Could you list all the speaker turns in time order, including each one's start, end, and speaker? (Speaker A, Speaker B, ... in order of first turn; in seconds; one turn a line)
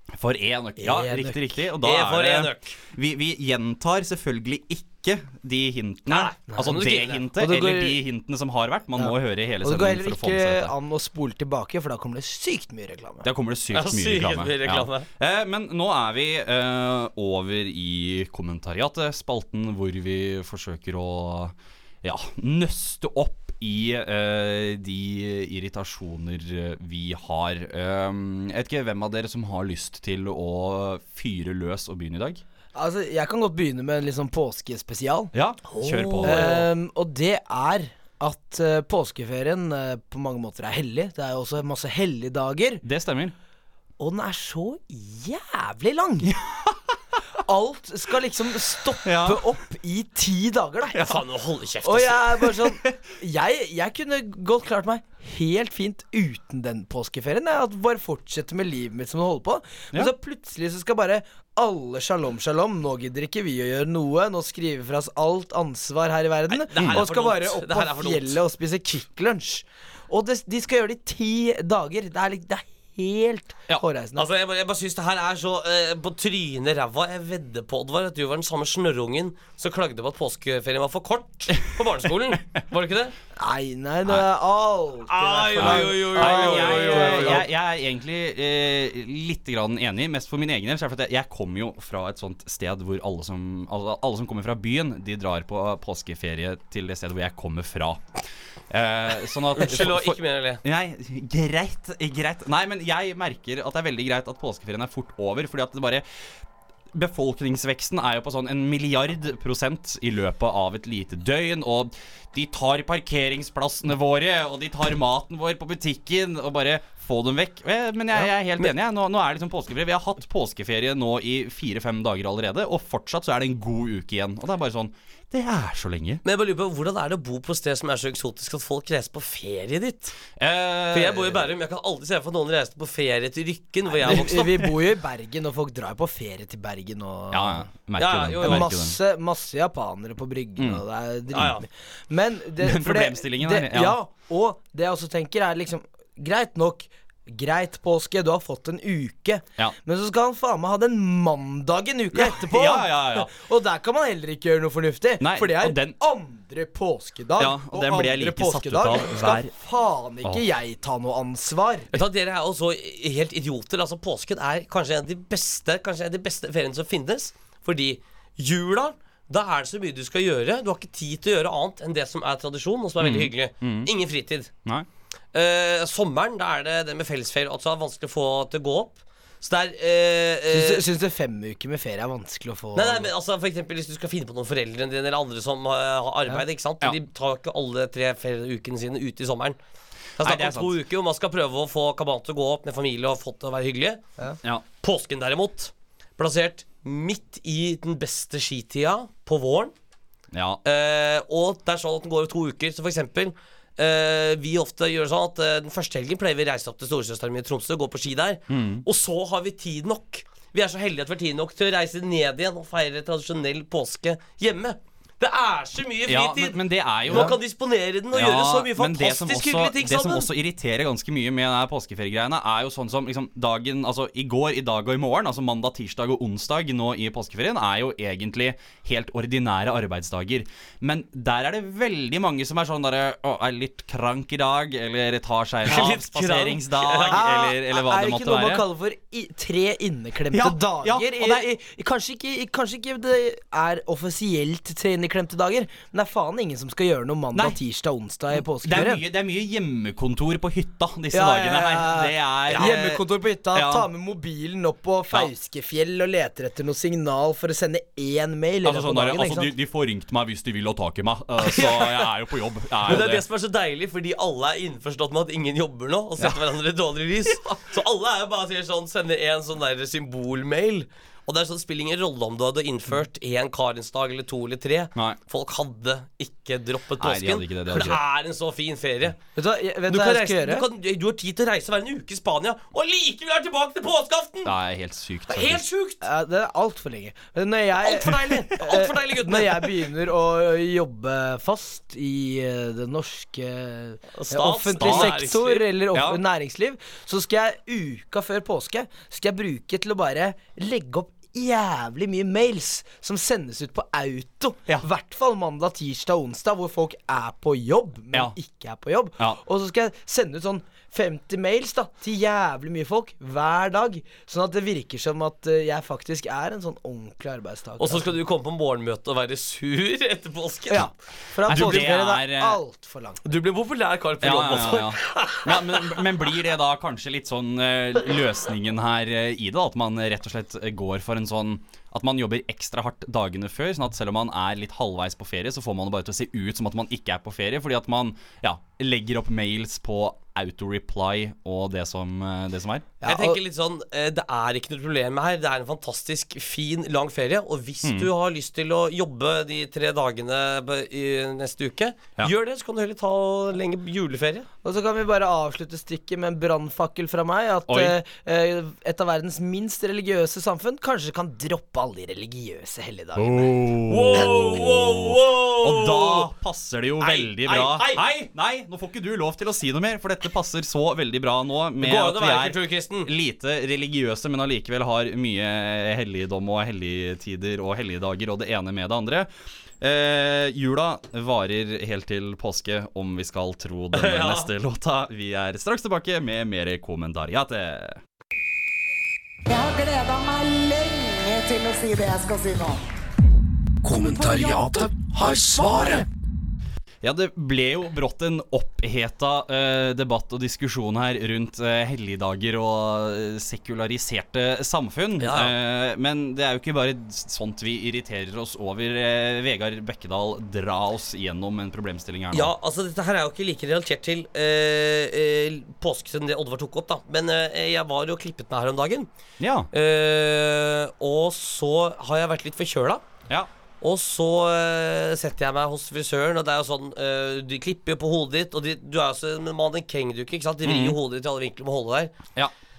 Speaker A: 0.2-10.7
Speaker B: 0.8-2.8
Speaker B: 6.1-7.2
Speaker C: 7.4-8.0
Speaker C: 8.9-13.3
Speaker A: 13.2-32.4
Speaker B: 13.7-15.1
Speaker C: 32.7-35.3
Speaker A: 35.3-36.6
Speaker B: 35.7-36.6
Speaker C: 36.2-42.8
Speaker A: 42.8-43.3
Speaker C: 44.0-46.3
Speaker A: 46.2-47.0
Speaker C: 47.4-51.2
Speaker A: 49.0-49.4
Speaker B: 50.9-52.4
Speaker C: 51.8-74.3
Speaker B: 66.5-68.4
Speaker A: 66.7-67.0
Speaker B: 74.2-83.1
Speaker C: 83.4-87.5
Speaker B: 85.1-87.4
Speaker A: 85.5-106.0
Speaker B: 99.5-100.6
Speaker A: 106.9-126.2
Speaker B: 126.2-130.2
Speaker A: 130.4-131.4
Speaker B: 130.9-134.5
Speaker C: 134.0-137.7
Speaker A: 137.3-139.0
Speaker B: 138.0-138.7
Speaker C: 138.4-161.9
Speaker B: 141.3-141.6
Speaker A: 142.6-144.0
Speaker A: 152.1-153.3
Speaker A: 155.2-155.9
Speaker A: 157.4-159.5
Speaker B: 161.9-174.5
Speaker A: 173.0-173.9
Speaker B: 175.3-180.8
Speaker C: 180.5-183.1
Speaker B: 182.7-189.6
Speaker A: 190.2-190.7
Speaker B: 190.2-194.0
Speaker B: 194.8-199.7
Speaker A: 200.3-200.6
Speaker B: 200.6-220.3
Speaker A: 208.5-208.8
Speaker A: 216.1-217.4
Speaker A: 218.1-238.6
Speaker B: 235.6-237.2
Speaker C: 237.1-249.0
Speaker A: 240.3-241.5
Speaker A: 248.3-253.9
Speaker C: 251.1-259.5
Speaker A: 258.6-263.2
Speaker C: 261.5-261.9
Speaker B: 262.9-279.2
Speaker A: 277.0-278.0
Speaker C: 279.3-280.6
Speaker B: 279.9-284.5
Speaker A: 284.4-285.6
Speaker B: 285.3-286.0
Speaker C: 286.0-318.1
Speaker B: 287.8-289.7
Speaker A: 288.0-288.3
Speaker B: 294.1-295.6
Speaker A: 294.8-295.2
Speaker A: 295.9-296.2
Speaker B: 317.8-320.8
Speaker C: 320.7-323.2
Speaker A: 321.5-322.6
Speaker B: 321.5-321.9
Speaker B: 323.2-326.0
Speaker A: 324.2-342.9
Speaker C: 343.0-343.4
Speaker B: 343.1-354.5
Speaker A: 347.8-348.1
Speaker C: 354.6-363.7
Speaker A: 357.7-357.9
Speaker A: 363.1-379.3
Speaker B: 363.9-366.3
Speaker B: 367.0-368.0
Speaker B: 371.8-373.1
Speaker A: 379.8-388.0
Speaker B: 383.9-384.5
Speaker D: 389.5-392.8
Speaker E: 393.8-396.1
Speaker A: 397.0-412.5
Speaker B: 405.2-405.5
Speaker B: 412.3-419.1
Speaker A: 419.4-419.7
Speaker B: 419.7-423.0
Speaker B: 423.8-432.1
Speaker A: 430.6-431.0